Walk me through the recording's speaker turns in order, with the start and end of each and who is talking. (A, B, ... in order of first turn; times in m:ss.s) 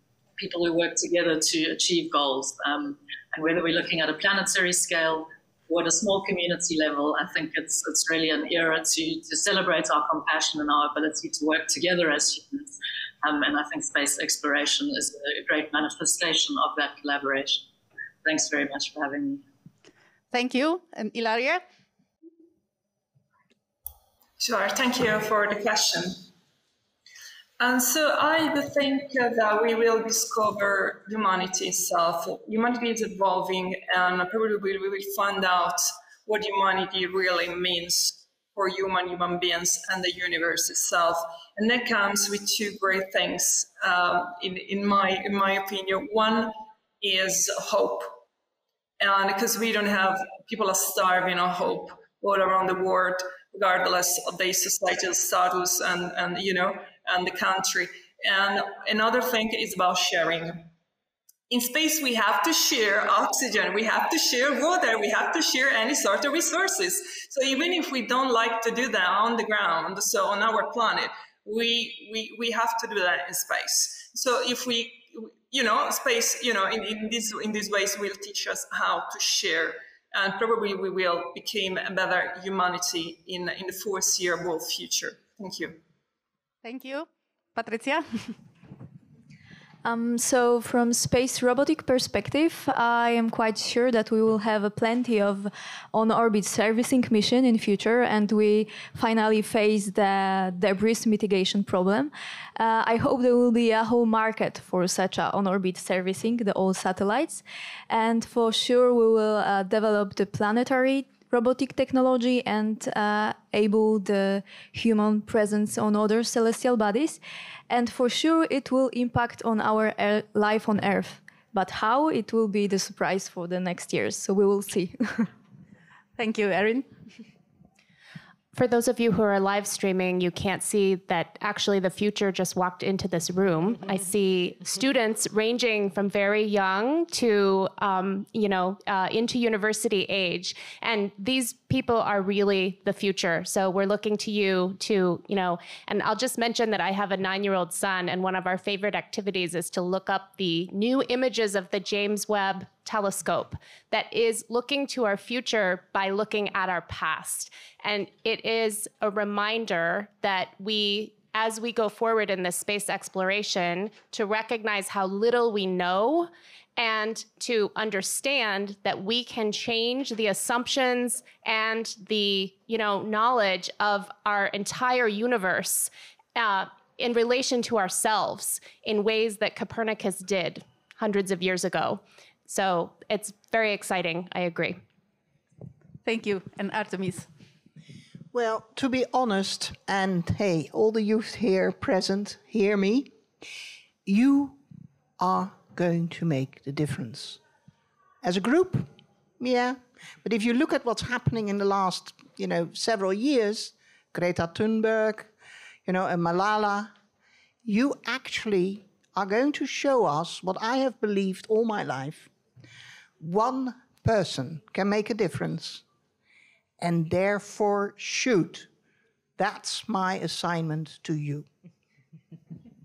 0:00.4-0:17.6 A
0:18.2-0:19.4 A
0:20.3-0:21.6 B
0:24.4-0:26.2 C
0:27.6-0:48.2 C
0:49.0-1:00.7 C
1:01.5-1:25.8 C
1:26.6-1:28.4 B
1:29.8-2:05.3 D
2:06.2-2:06.9 B
2:08.5-3:04.8 E
3:06.0-3:07.3 B
3:08.3-3:13.1 F
3:14.0-3:14.6 F
3:15.2-3:17.4 F
3:18.2-3:25.3 F
3:25.8-3:26.9 F
3:27.6-3:32.3 F
3:33.2-3:35.8 F
3:36.8-3:38.7 F
3:39.4-3:41.5 F